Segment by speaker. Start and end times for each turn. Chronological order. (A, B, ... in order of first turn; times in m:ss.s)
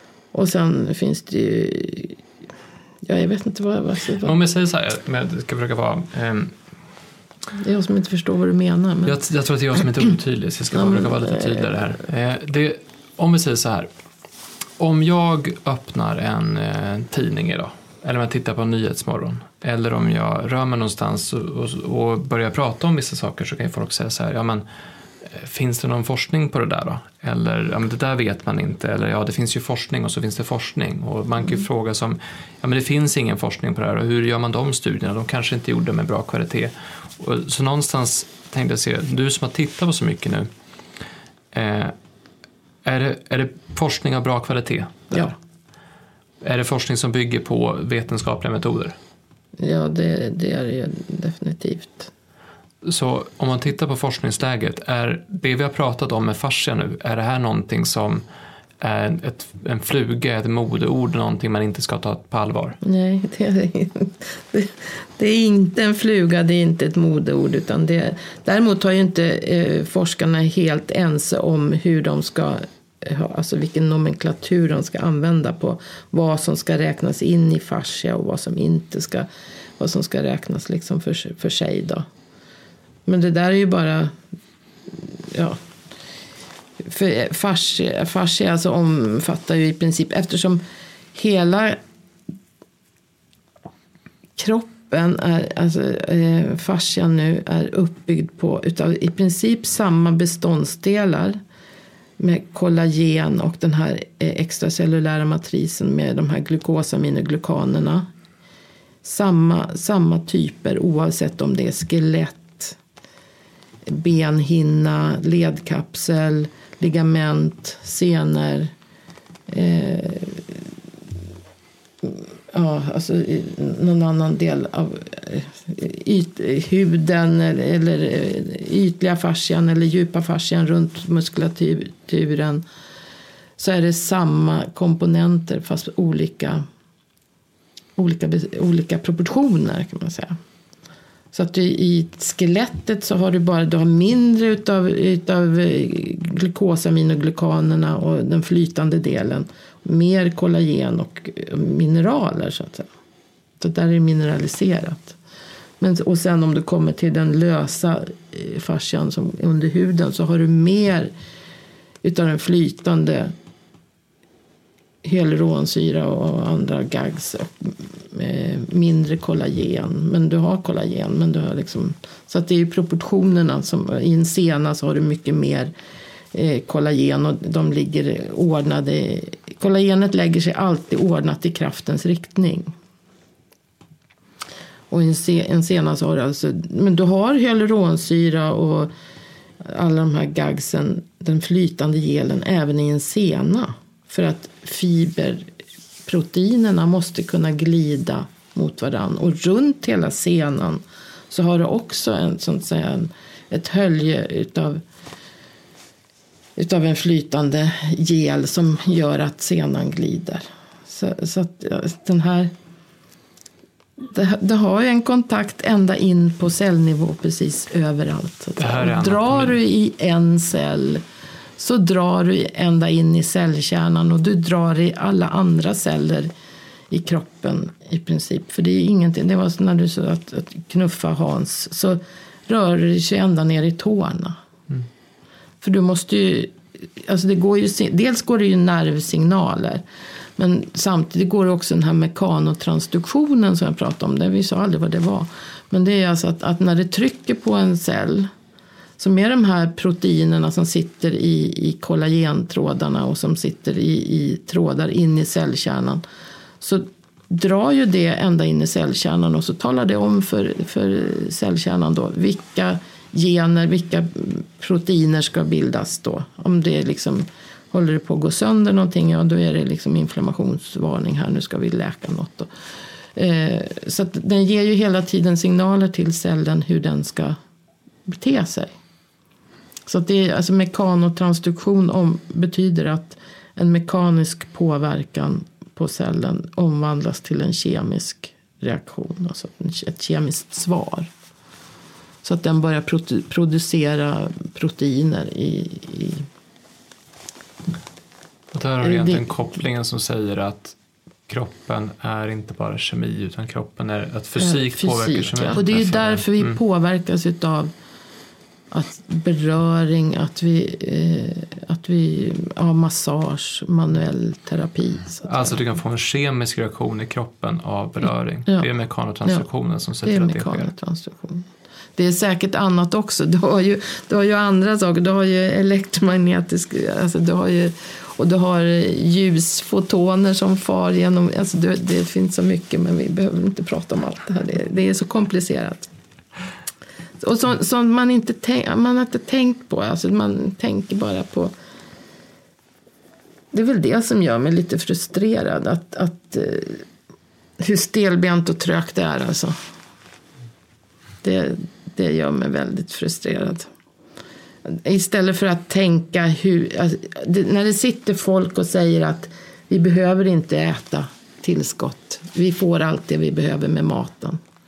0:00.3-0:02.2 A
0:03.0-0:04.4 A
0:04.2-0:06.5 B
0:07.6-0:09.2 A
0:09.0-0:13.9 B
0:10.7-0:11.9 A
0:14.8-0:24.6 B
0:25.2-0:40.5 B
0:41.5-0:41.9 B
0:42.8-0:45.4 B
0:46.4-0:49.0 B
0:49.6-0:52.1 A
0:52.8-0:58.2 B
0:58.8-1:02.8 B
1:02.8-1:22.1 A
1:23.0-1:24.1 A
1:24.9-1:25.6 A
1:26.8-1:30.6 A
1:31.1-1:31.8 A
1:34.4-1:41.4 A
1:42.2-1:48.1 A
1:49.0-1:52.8 A
1:53.8-1:58.7 A
1:59.5-2:00.7 A
2:02.0-2:12.6 A
2:13.6-2:16.6 A
2:18.0-2:20.4 A
2:21.3-2:32.9 A
2:33.6-2:35.2 A
2:35.8-2:41.1 A
2:42.0-2:43.3 A
2:45.0-2:55.7 A
2:56.3-3:02.7 A
3:04.9-3:08.9 A
3:09.6-3:15.5 A
3:16.0-3:24.8 A
3:26.6-3:32.5 A
3:34.0-3:41.0 A
3:38.6-3:39.6 B
3:41.6-3:46.3 A
3:46.9-3:54.4 A
3:55.6-3:59.8 A
4:00.4-4:08.3 A
4:09.0-4:16.0 A
4:16.6-4:32.5 A
4:33.1-4:37.4 A
4:38.1-4:38.7 A
4:39.8-4:51.1 A
4:52.2-4:56.3 A
4:58.5-5:00.8 B
4:58.8-4:59.2 A
5:01.3-5:06.6 B
5:04.4-5:07.7 A
5:08.7-5:15.6 A
5:15.2-5:20.7 B
5:20.0-5:35.9 A
5:37.2-5:41.5 A
5:43.5-5:46.8 A
5:47.6-5:49.6 A
5:51.2-5:53.7 A
5:54.6-6:04.4 A